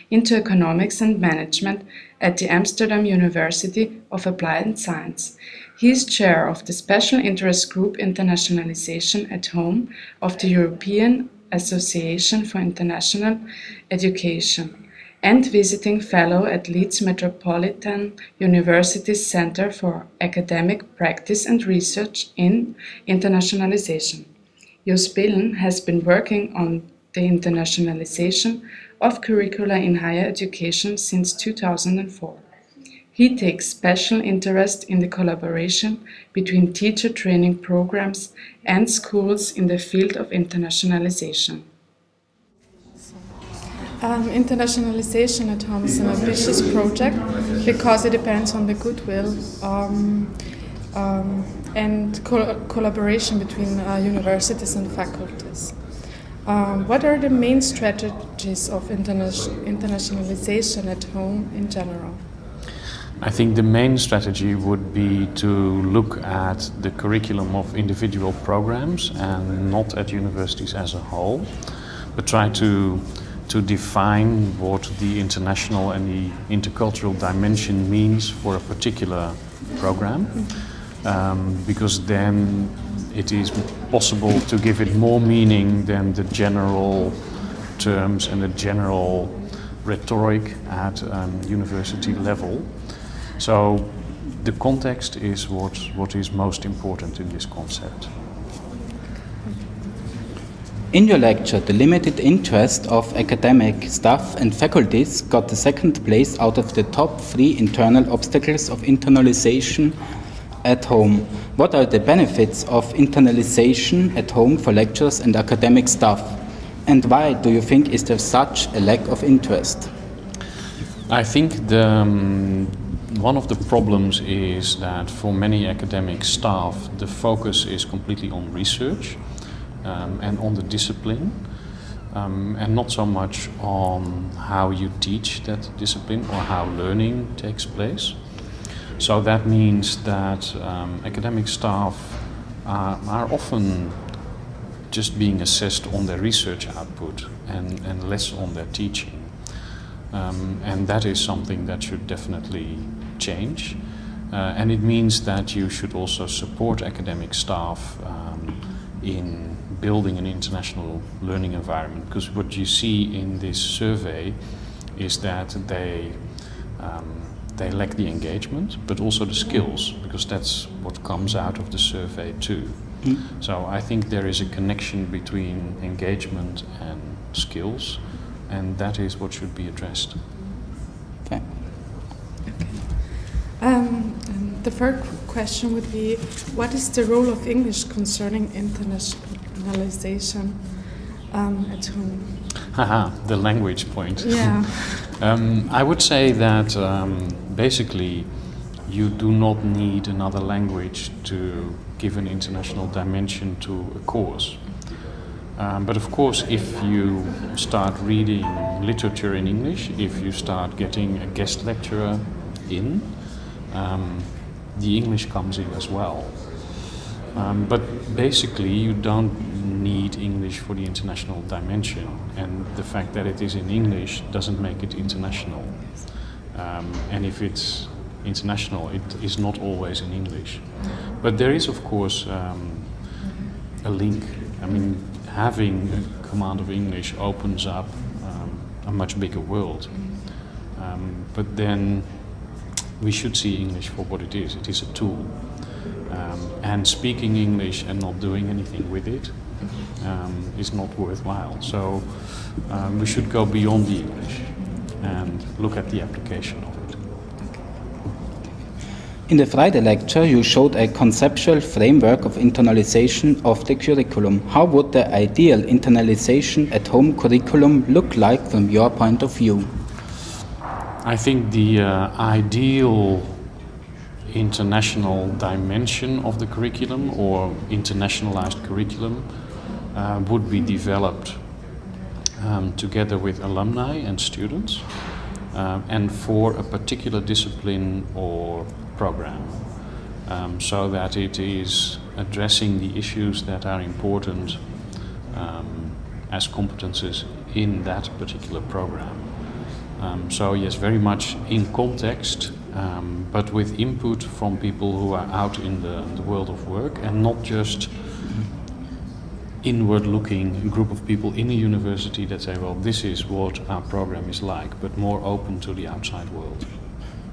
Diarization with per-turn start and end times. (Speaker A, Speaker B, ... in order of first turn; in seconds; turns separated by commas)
Speaker A: 0.1-0.5, Speaker B: 0.4-3.2, Speaker A: 2.4-5.1, Speaker B: 3.9-10.0, Speaker A: 5.8-6.9, Speaker A: 7.9-8.2, Speaker A: 10.2-13.4, Speaker B: 10.7-13.4, Speaker A: 13.9-14.7, Speaker A: 15.2-15.7, Speaker B: 15.3-24.3, Speaker B: 24.8-32.4, Speaker B: 33.1-41.6, Speaker A: 44.0-62.2, Speaker C: 63.2-98.2, Speaker D: 100.9-110.0, Speaker D: 110.6-119.9, Speaker C: 121.1-144.2, Speaker C: 144.9-180.2, Speaker A: 182.4-192.6, Speaker C: 192.7-257.1, Speaker A: 194.2-194.7, Speaker D: 259.3-269.7, Speaker C: 271.0-273.4, Speaker C: 274.2-281.8, Speaker C: 282.4-308.4, Speaker C: 309.6-317.0